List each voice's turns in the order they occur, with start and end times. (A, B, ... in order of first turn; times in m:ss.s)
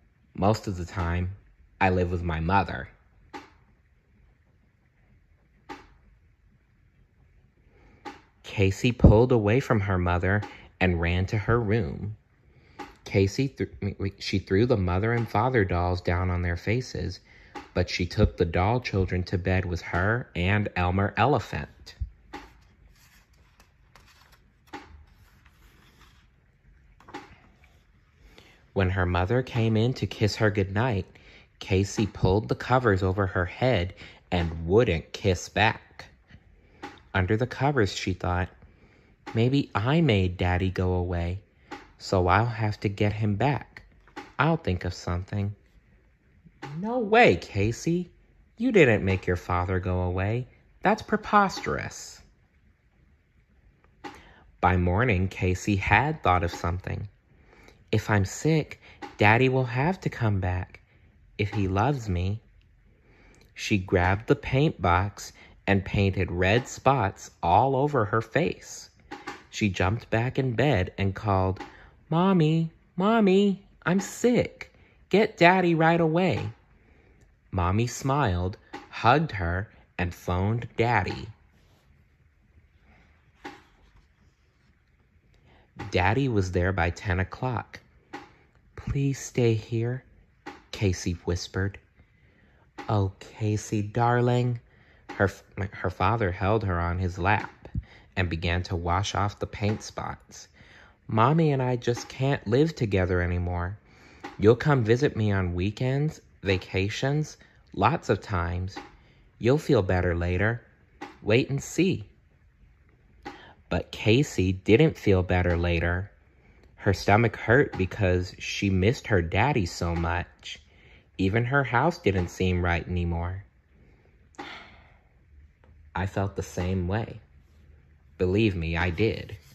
0:00.3-0:02.9 A
0:08.4-0:12.2 A
0:13.0-0:17.2 A
0:17.8-0:22.0 A
0:28.7-0:36.1 A
0:37.1-0:38.5 A
0:39.3-0:41.4 A
0:42.0-0:43.9 A
0:44.4-0:45.6 A
0:46.6-0:52.2 A
0:54.6-0:57.1 A
0:57.9-1:00.8 A
1:01.4-1:02.4 A
1:03.6-1:08.9 A
1:09.5-1:16.6 A
1:17.5-1:21.3 A
1:25.8-1:27.8 A
1:28.8-1:30.0 A
1:30.7-1:31.8 A
1:32.9-1:40.5 A
1:41.1-1:43.8 A
1:44.4-1:48.8 A
1:49.4-1:50.6 A
1:51.2-1:52.1 A
1:53.7-1:56.1 A
1:56.8-2:00.6 A
2:01.2-2:03.4 A
2:05.9-2:07.2 A
2:08.2-2:09.4 A